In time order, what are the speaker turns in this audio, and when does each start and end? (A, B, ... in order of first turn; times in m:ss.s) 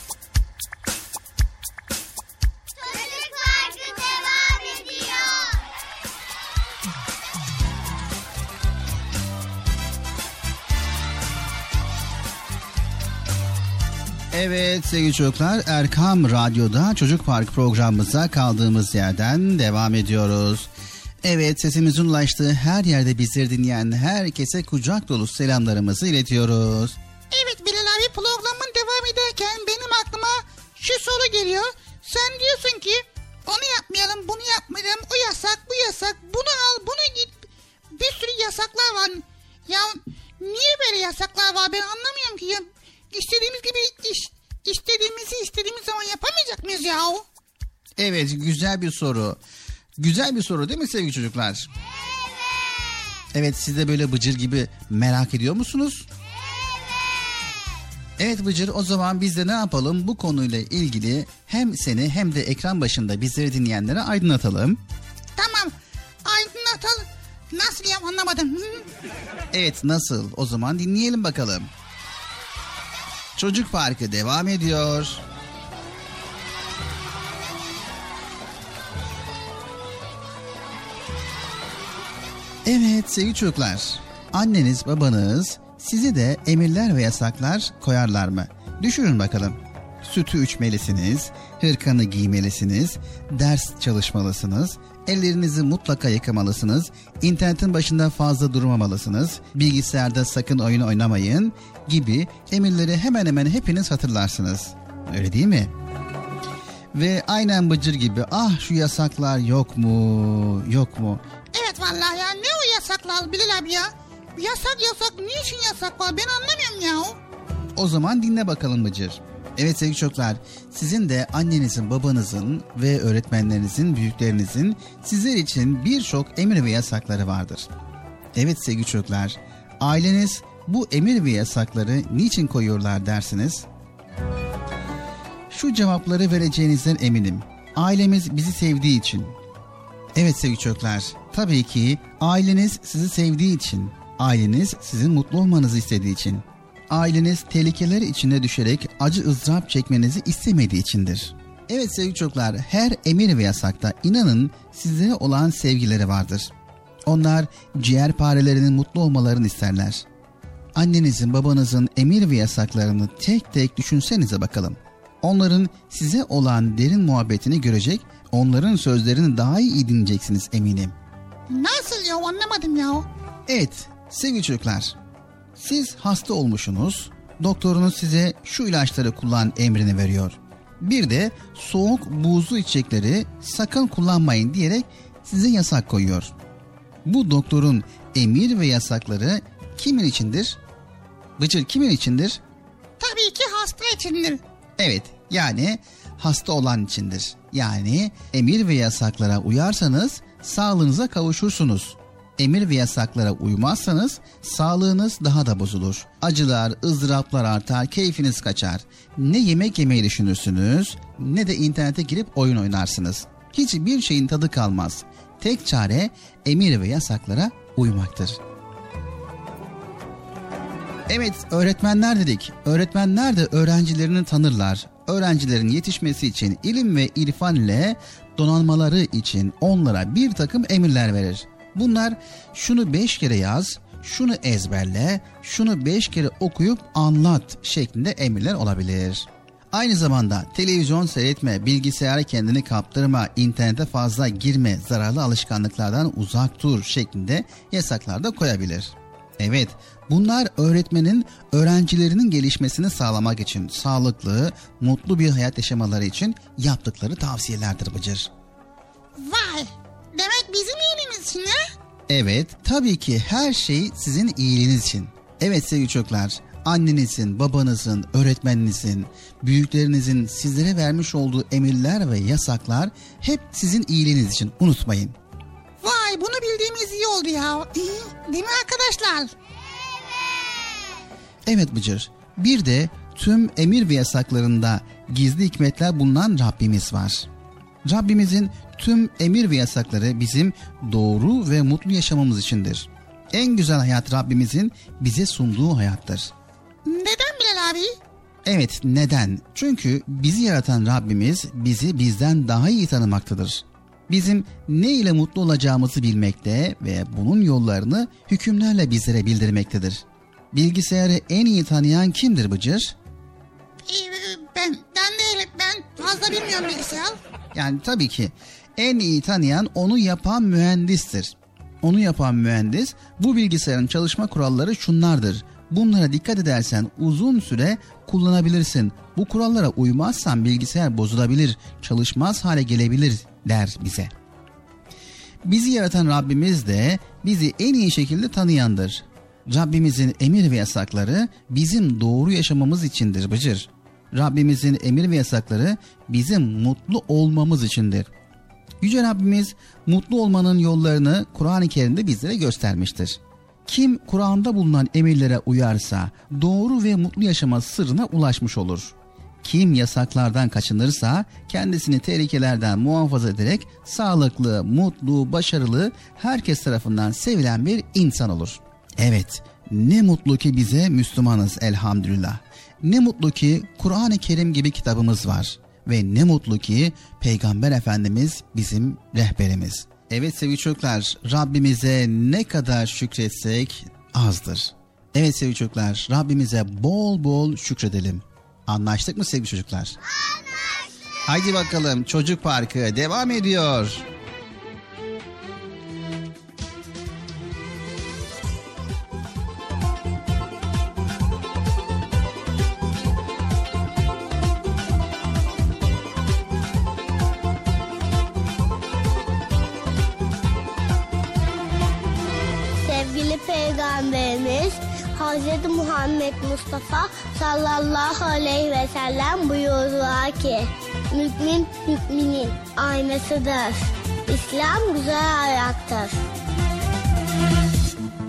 0:14.3-0:20.7 A
0:21.2-0:27.0 A
0:27.3-0:37.4 B
0:38.0-0:47.3 B
0:48.0-0:49.4 A
0:50.0-0:51.7 A
0:53.3-0:56.1 A
0:58.2-1:04.8 A
1:05.4-1:05.7 B
1:06.2-1:08.9 B
1:09.5-1:11.7 A
1:13.4-1:15.2 A
1:22.6-1:45.7 A
1:46.9-1:51.2 A
1:51.5-1:57.2 B
1:57.8-2:07.7 A
2:08.4-2:13.7 A
2:15.5-2:19.4 A
2:20.2-2:36.5 A
2:37.1-2:40.0 A
2:40.8-2:51.0 A
2:51.5-2:53.1 B
2:53.5-2:55.0 A
2:55.6-3:06.3 A
3:07.0-3:10.6 A
3:11.4-3:12.4 A
3:13.0-3:14.4 B
3:14.8-3:38.4 A
3:41.1-4:18.3 A
4:19.2-4:21.6 B
4:22.1-4:35.2 A
4:35.8-4:39.3 B
4:41.4-4:47.3 A
4:47.8-4:56.3 A
4:56.9-4:58.0 B
4:58.4-5:13.0 A
5:13.9-5:17.2 B
5:17.5-5:34.1 A
5:35.4-5:48.1 A
5:48.8-6:30.0 A
6:31.3-6:34.1 A
6:52.8-7:06.2 C